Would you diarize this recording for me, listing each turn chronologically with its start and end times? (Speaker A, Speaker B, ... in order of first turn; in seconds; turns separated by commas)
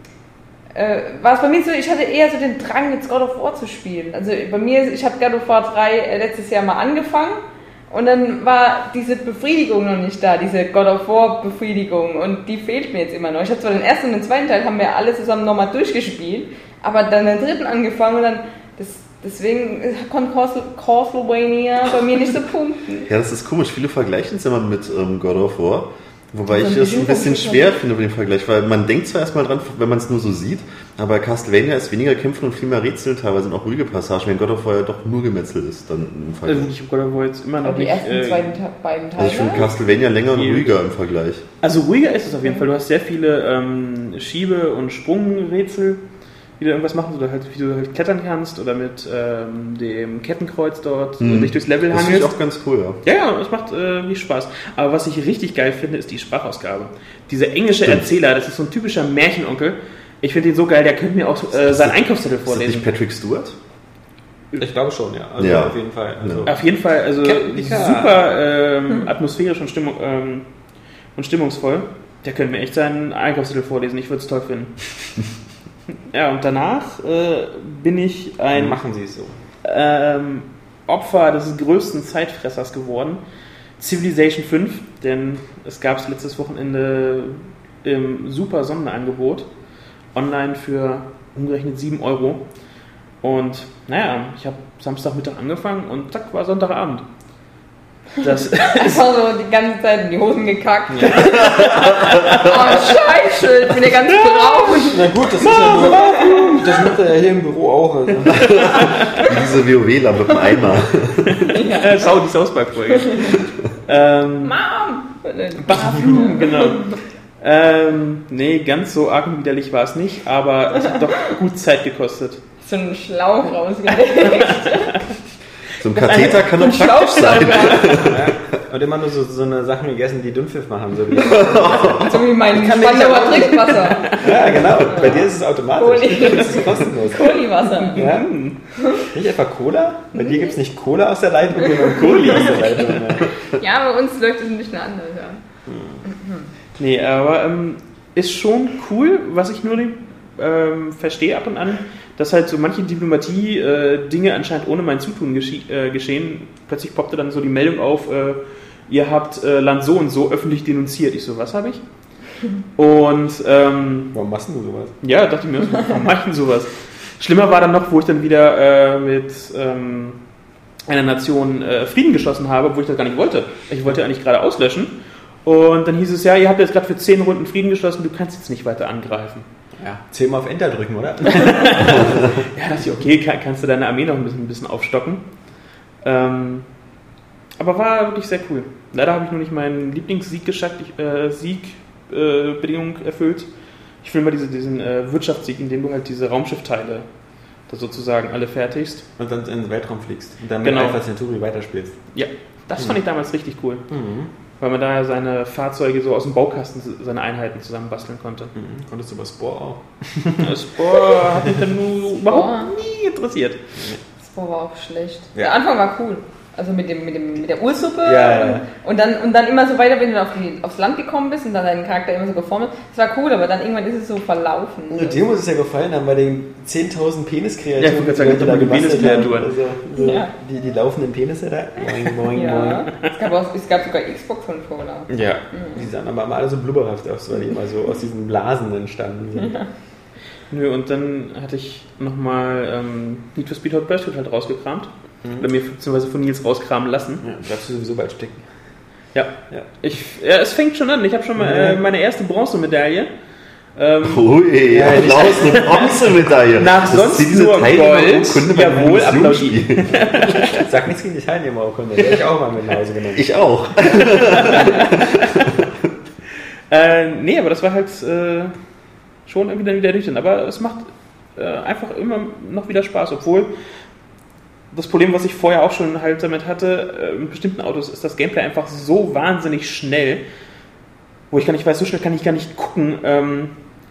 Speaker A: 0.7-23.1, Speaker B: 23.1-36.7, Speaker A: 26.5-27.8, Speaker C: 36.5-38.6, Speaker A: 37.6-39.7, Speaker B: 39.2-41.4, Speaker C: 40.3-40.8, Speaker C: 41.6-46.0, Speaker C: 46.6-52.4, Speaker B: 51.2-53.0, Speaker C: 53.0-62.9, Speaker B: 61.6-63.6, Speaker D: 64.6-66.6, Speaker B: 65.4-66.5, Speaker C: 66.5-70.5, Speaker D: 67.2-68.2, Speaker C: 71.1-74.9, Speaker C: 76.1-78.8, Speaker D: 78.5-79.3, Speaker C: 79.6-83.2, Speaker C: 83.8-89.5, Speaker C: 90.1-92.5, Speaker C: 93.2-97.0, Speaker C: 98.2-99.0, Speaker A: 98.7-106.8, Speaker D: 100.9-101.5, Speaker C: 101.2-103.0, Speaker B: 101.5-102.2, Speaker C: 103.9-104.9, Speaker D: 104.9-108.5, Speaker B: 108.4-111.5, Speaker C: 111.4-114.6, Speaker A: 111.5-112.1, Speaker A: 114.4-117.0, Speaker C: 115.7-122.4, Speaker A: 122.6-125.0, Speaker B: 125.8-128.4, Speaker A: 125.9-128.1, Speaker C: 126.0-128.0, Speaker D: 128.1-132.0, Speaker B: 131.2-132.5, Speaker A: 131.4-138.1, Speaker C: 132.5-134.3, Speaker D: 134.2-137.4, Speaker C: 137.7-138.6, Speaker D: 138.0-143.3, Speaker A: 140.2-140.6, Speaker A: 141.7-142.6, Speaker C: 142.2-142.6, Speaker A: 143.5-145.4, Speaker D: 145.7-146.0, Speaker A: 146.1-146.5, Speaker C: 146.8-164.1, Speaker D: 164.1-164.9, Speaker C: 165.0-170.2, Speaker C: 170.9-179.5, Speaker D: 179.8-182.1, Speaker C: 181.5-186.9, Speaker C: 187.6-199.1, Speaker D: 199.2-202.0, Speaker C: 200.6-201.0, Speaker C: 202.1-203.9, Speaker D: 203.9-204.3, Speaker C: 204.6-208.5, Speaker D: 208.6-210.5, Speaker C: 210.4-213.6, Speaker A: 212.3-212.7, Speaker A: 214.2-225.2, Speaker D: 218.0-218.7, Speaker D: 224.9-232.9, Speaker C: 227.8-229.5, Speaker A: 229.0-229.3, Speaker A: 230.0-230.3, Speaker A: 232.3-235.9, Speaker D: 235.1-239.6, Speaker A: 239.4-239.7, Speaker C: 240.5-247.3, Speaker D: 247.2-248.5, Speaker C: 249.1-253.1, Speaker D: 251.4-251.8, Speaker C: 253.7-254.3, Speaker B: 254.0-260.1, Speaker D: 254.7-256.0, Speaker C: 255.5-255.8, Speaker C: 256.6-260.6, Speaker D: 260.5-263.3, Speaker B: 263.2-265.6, Speaker C: 264.5-264.8, Speaker C: 266.7-268.6, Speaker C: 269.2-273.5, Speaker C: 274.7-280.2, Speaker C: 281.3-283.6